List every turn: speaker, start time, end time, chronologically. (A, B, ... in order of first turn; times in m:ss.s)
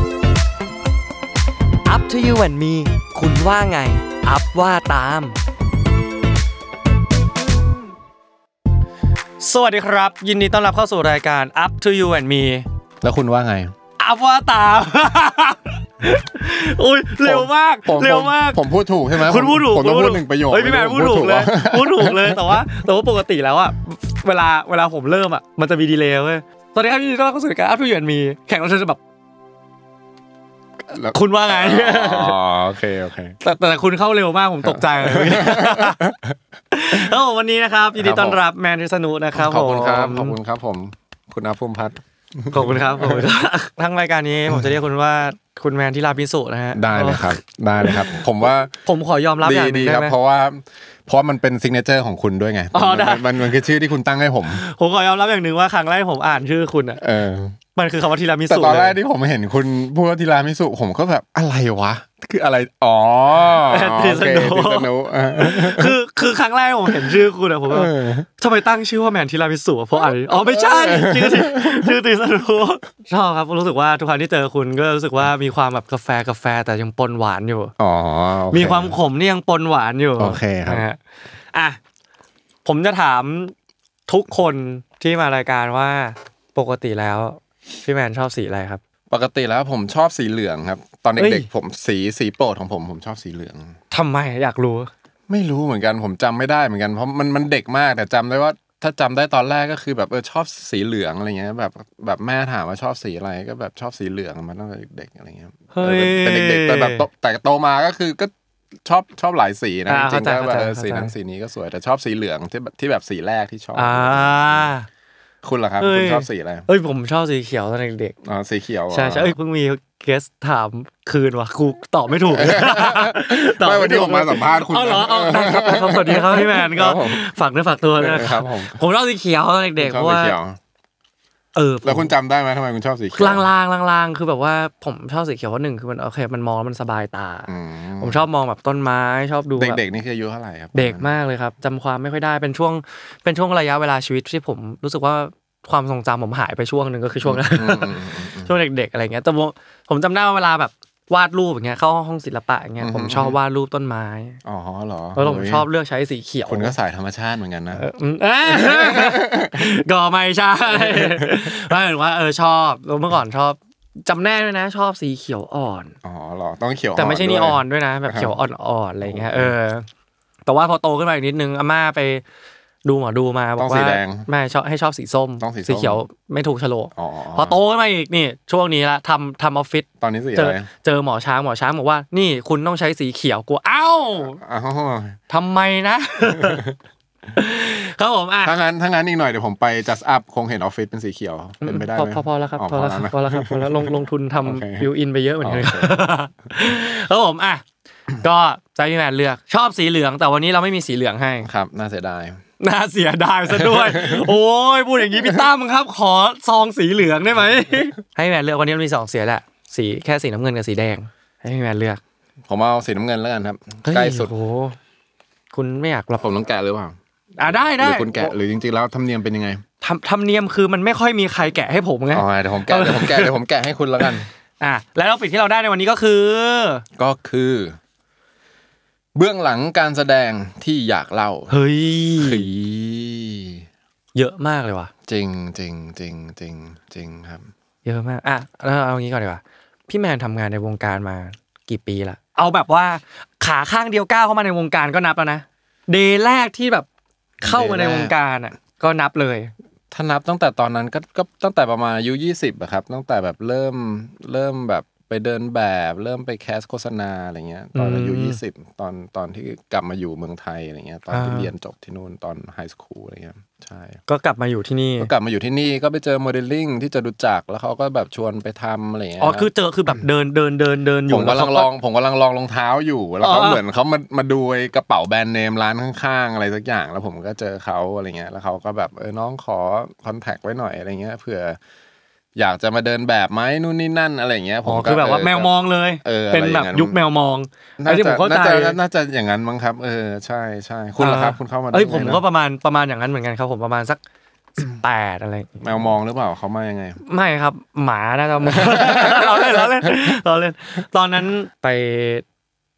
0:01.8-0:05.4 A
0:09.4-0:12.6 A
0:13.0-0:13.7 B
0:14.0-0:18.6 A
0:17.2-0:22.6 B
0:19.1-0:29.0 A
0:30.9-0:33.4 B
0:31.1-0:32.4 A
0:33.4-0:36.1 A
0:34.6-0:36.3 B
0:36.7-0:40.4 A
0:38.0-0:38.4 B
0:39.3-0:43.3 B
0:42.5-0:48.2 A
0:46.7-0:48.7 B
0:48.8-0:50.1 A
0:49.4-0:54.6 B
0:52.7-0:53.3 A
0:54.5-0:57.0 A
0:57.0-0:57.6 B
0:57.7-0:59.0 A
0:58.5-1:05.9 B
1:03.6-1:17.7 A
1:06.9-1:08.3 B
1:10.3-1:11.9 B
1:17.8-1:18.9 B
1:18.5-1:21.0 A
1:20.2-1:20.8 B
1:21.5-1:21.8 A
1:22.6-1:23.5 A
1:24.1-1:28.8 A
1:29.1-1:33.7 B
1:31.2-1:31.5 A
1:33.9-1:34.9 A
1:35.3-1:48.3 B
1:45.7-1:47.0 A
1:48.8-1:54.7 B
1:49.9-1:51.1 A
1:53.7-1:54.9 A
1:55.4-1:56.6 B
1:55.8-1:58.2 A
1:58.2-1:59.4 B
1:58.9-2:10.4 A
2:02.3-2:07.2 B
2:08.0-2:08.8 B
2:09.8-2:10.6 B
2:11.5-2:12.1 A
2:11.8-2:13.4 B
2:13.1-2:19.8 A
2:17.5-2:18.2 B
2:19.6-2:21.1 B
2:20.7-2:34.4 A
2:27.2-2:28.5 B
2:32.8-2:33.4 B
2:34.4-2:35.6 B
2:35.2-2:36.7 A
2:36.5-2:37.8 B
2:37.7-2:45.9 A
2:38.4-2:39.8 B
2:40.7-2:41.6 B
2:46.0-2:48.3 B
2:47.0-2:49.8 A
2:49.0-2:49.5 B
2:50.4-2:52.2 A
2:52.8-3:04.4 A
2:53.6-2:54.3 B
2:55.4-2:56.0 B
2:57.0-2:57.6 B
3:00.0-3:00.7 B
3:04.4-3:05.2 B
3:05.3-3:06.6 A
3:06.3-3:06.8 B
3:07.4-3:08.5 A
3:08.4-3:14.8 B
3:11.6-3:17.6 A
3:15.4-3:16.0 B
3:18.2-3:21.5 A
3:21.4-3:22.4 B
3:22.6-3:32.0 A
3:23.5-3:24.3 B
3:32.5-3:34.3 B
3:33.8-3:34.8 A
3:35.5-3:36.2 A
3:36.2-3:37.0 B
3:37.4-3:38.3 A
3:37.5-3:39.6 B
3:39.8-3:43.3 A
3:42.1-3:44.3 B
3:44.6-3:46.8 A
3:47.0-3:47.8 B
3:49.2-3:51.5 B
3:51.5-3:52.5 A
3:52.2-3:53.6 B
3:54.1-3:54.9 A
3:55.1-3:57.5 B
3:57.8-4:06.9 A
4:07.4-4:08.1 B
4:07.4-4:09.5 A
4:09.9-4:24.0 B
4:17.7-4:18.4 A
4:21.1-4:21.5 A
4:24.1-4:25.1 A
4:25.0-4:30.0 B
4:29.2-4:31.7 A
4:31.1-4:41.6 B
4:33.2-4:33.6 A
4:42.4-4:47.0 B
4:44.6-4:48.8 A
4:47.8-4:52.2 B
4:51.0-4:54.0 A
4:54.6-4:55.9 A
4:55.6-4:57.0 B
4:57.0-5:02.2 A
4:58.4-5:00.1 B